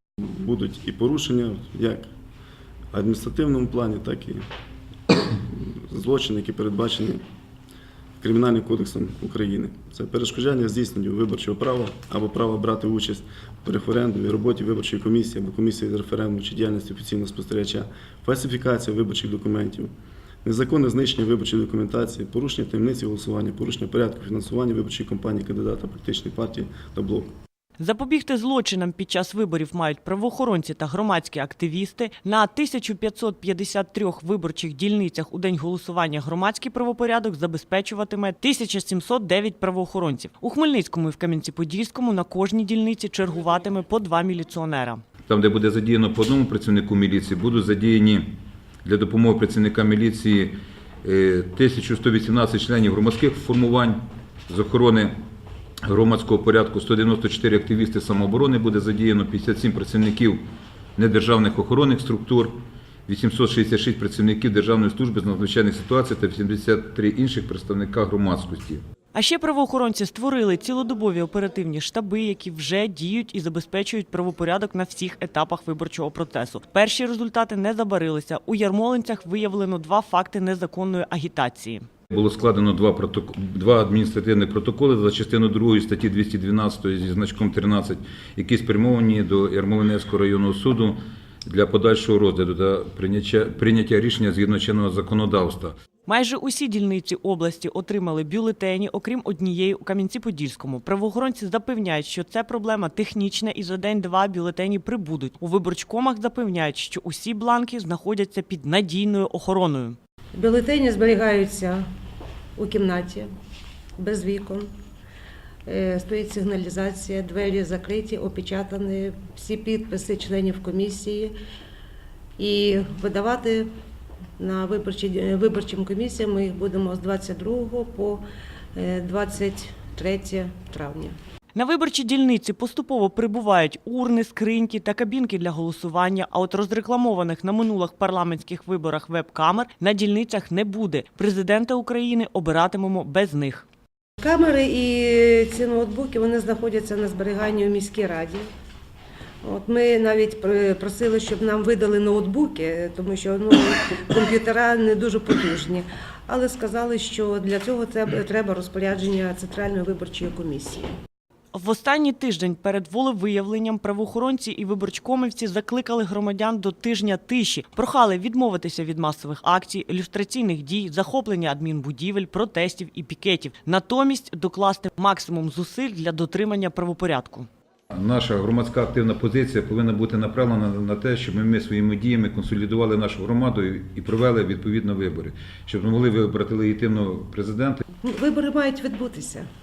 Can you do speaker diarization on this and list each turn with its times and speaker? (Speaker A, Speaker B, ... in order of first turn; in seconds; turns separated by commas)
Speaker A: 0.2-2.1, Speaker A: 2.9-4.5, Speaker A: 5.3-7.2, Speaker A: 8.2-19.9, Speaker A: 20.4-27.3, Speaker B: 27.8-45.0, Speaker C: 45.3-55.1, Speaker C: 55.8-60.4, Speaker C: 61.0-68.8, Speaker B: 69.1-81.8, Speaker C: 82.1-95.7, Speaker B: 96.0-110.0, Speaker D: 110.3-111.8, Speaker D: 112.6-113.3, Speaker D: 114.0-114.7, Speaker D: 115.7-121.3, Speaker D: 122.4-123.7, Speaker D: 124.4-128.2, Speaker D: 128.7-131.1, Speaker B: 131.5-143.7, Speaker D: 144.2-148.4, Speaker D: 149.4-160.9, Speaker B: 161.5-177.5, Speaker C: 177.9-187.8, Speaker D: 188.0-189.4